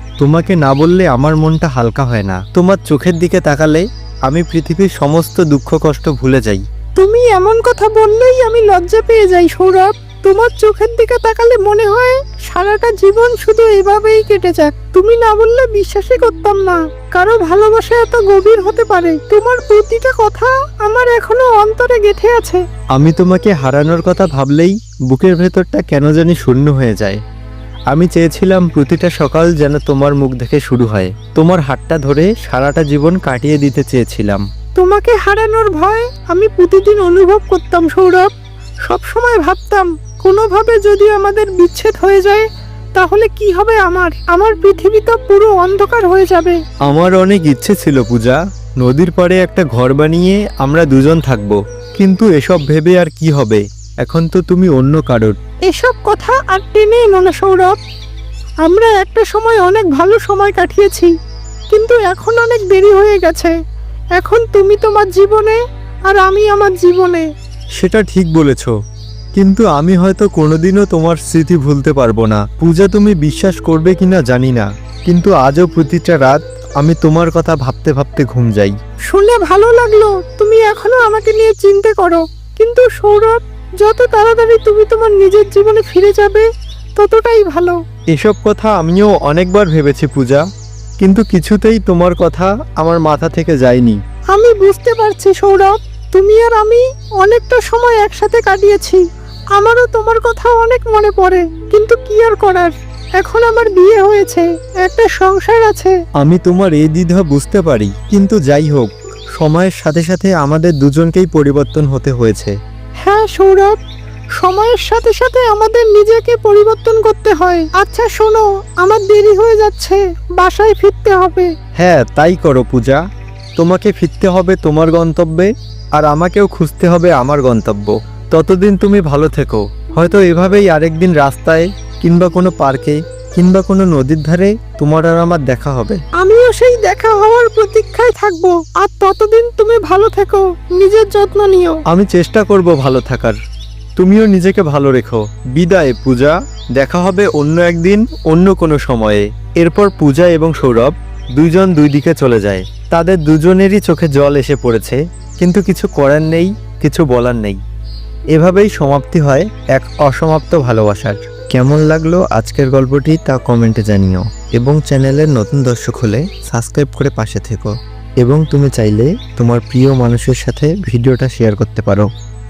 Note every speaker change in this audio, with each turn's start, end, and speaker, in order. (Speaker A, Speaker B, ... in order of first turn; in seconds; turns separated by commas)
Speaker A: 0.2-6.6, Speaker B: 7.0-22.6, Speaker A: 22.9-27.2, Speaker A: 27.9-34.4, Speaker B: 34.8-38.3, Speaker B: 38.9-46.6, Speaker A: 46.9-55.4, Speaker B: 55.6-57.8, Speaker B: 58.6-61.1, Speaker B: 61.7-63.5, Speaker B: 64.2-67.3, Speaker A: 67.8-68.7, Speaker A: 69.3-78.8, Speaker B: 79.1-87.8, Speaker A: 88.1-90.4, Speaker A: 91.0-94.0, Speaker B: 94.3-99.0, Speaker B: 99.5-106.0, Speaker A: 106.2-112.5, Speaker B: 113.0-113.8, Speaker B: 114.4-121.5, Speaker A: 121.8-123.0, Speaker A: 123.6-136.0, Speaker B: 136.2-141.8, Speaker A: 141.9-143.4, Speaker A: 144.0-157.6, Speaker A: 158.3-172.1